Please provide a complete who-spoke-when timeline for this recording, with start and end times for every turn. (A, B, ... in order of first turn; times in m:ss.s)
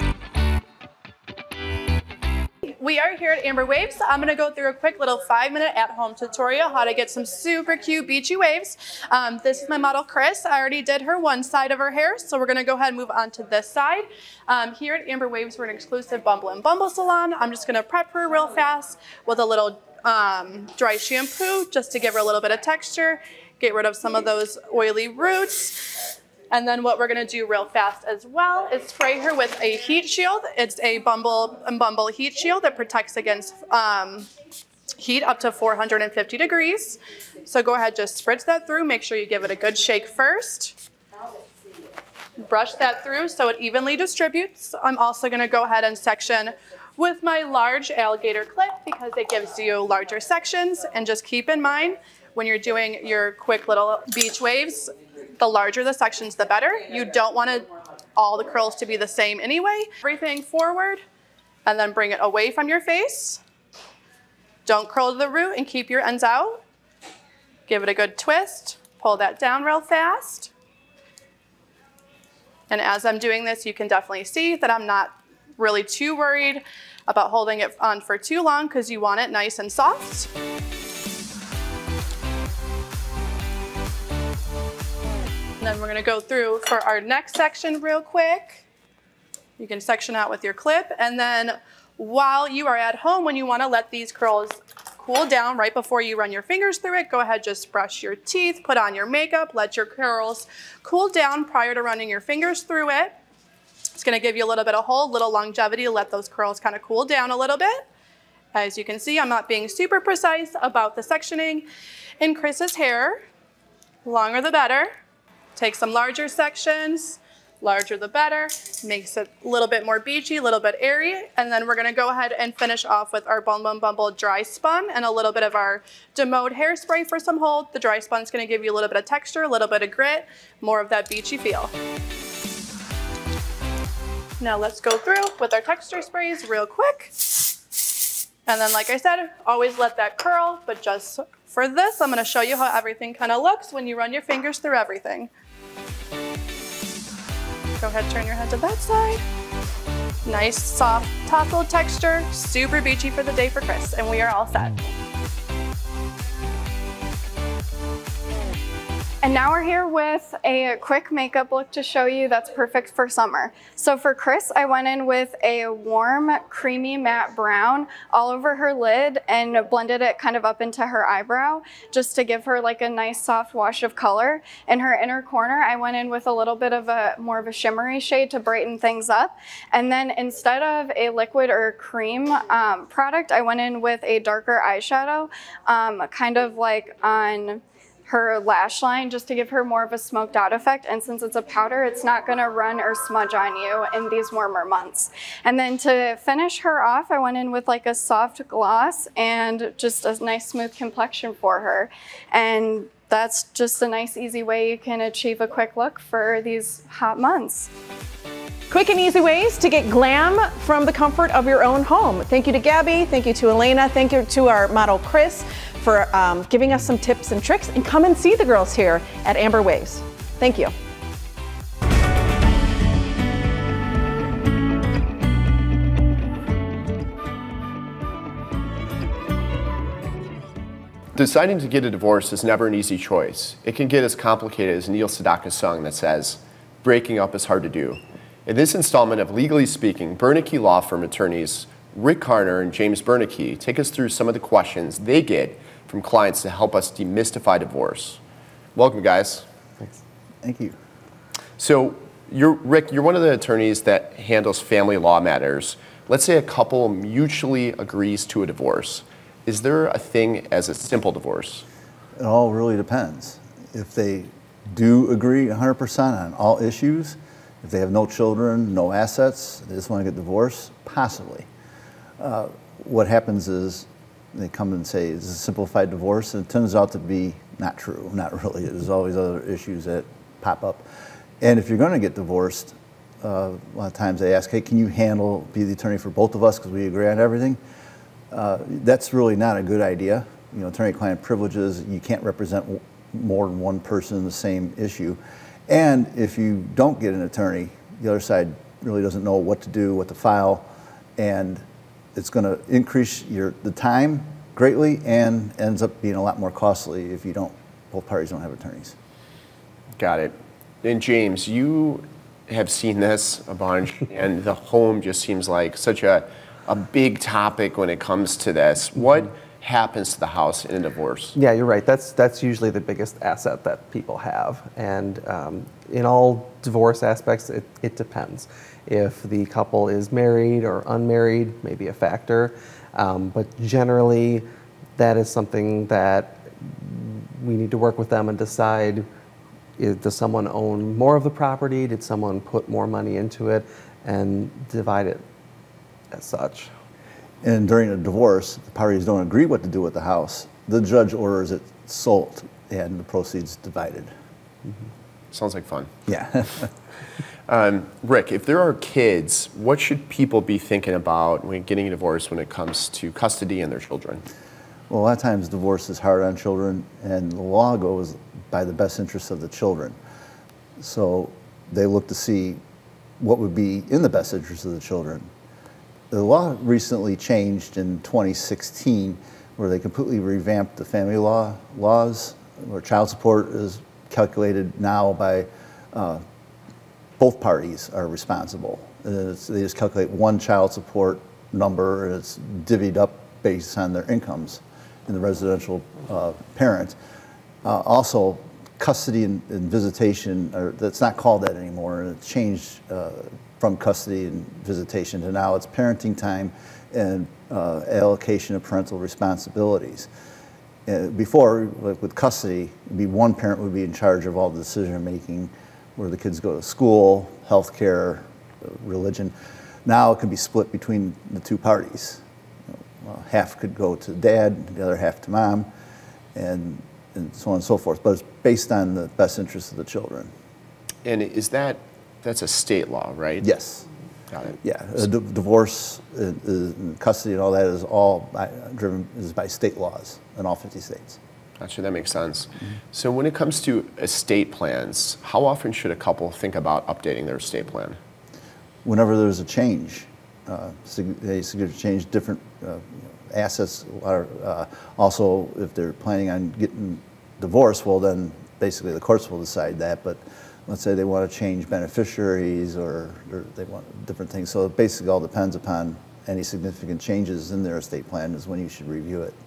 0:02.8-0:34.3 A
0:35.0-0:40.8 A
0:42.4-1:01.0 A
1:01.6-1:03.4 A
1:04.6-1:06.6 A
1:07.7-1:10.5 A
1:12.7-1:20.3 A
1:25.6-1:28.6 A
1:29.6-1:43.2 A
1:44.0-1:47.8 A
1:48.5-1:51.6 A
1:52.2-1:53.2 A
1:54.0-1:54.9 A
1:55.6-2:11.7 A
2:14.4-2:17.2 A
2:18.4-2:25.3 A
2:27.8-2:29.2 A
2:30.2-2:34.8 A
2:39.2-3:27.7 B
3:28.7-3:40.7 C
3:51.1-4:08.2 D
4:08.7-4:09.4 D
4:10.4-4:10.7 E
4:11.6-4:21.6 D
4:22.2-4:31.5 E
4:32.2-4:40.8 E
4:41.4-4:47.6 E
4:48.3-5:00.6 E
5:01.2-5:01.6 E
5:02.1-5:08.9 E
5:10.0-5:21.4 D
5:21.3-5:39.1 F
5:39.8-5:45.2 F
5:46.1-5:46.7 F
5:47.4-5:54.1 E
5:55.3-5:55.9 D
5:56.1-5:56.7 E
5:57.5-6:04.2 D
6:04.9-6:10.0 E
6:10.8-6:12.6 E
6:13.2-6:15.3 E
6:16.1-6:26.2 E
6:27.2-6:37.0 E
6:37.6-6:50.1 E
6:50.8-6:59.3 E
6:59.8-7:05.7 E
7:06.3-7:10.3 E
7:11.0-7:13.4 D
7:13.4-7:13.8 E
7:14.3-7:15.0 D
7:14.6-7:21.2 E
7:21.6-7:28.0 D
7:28.8-7:49.4 E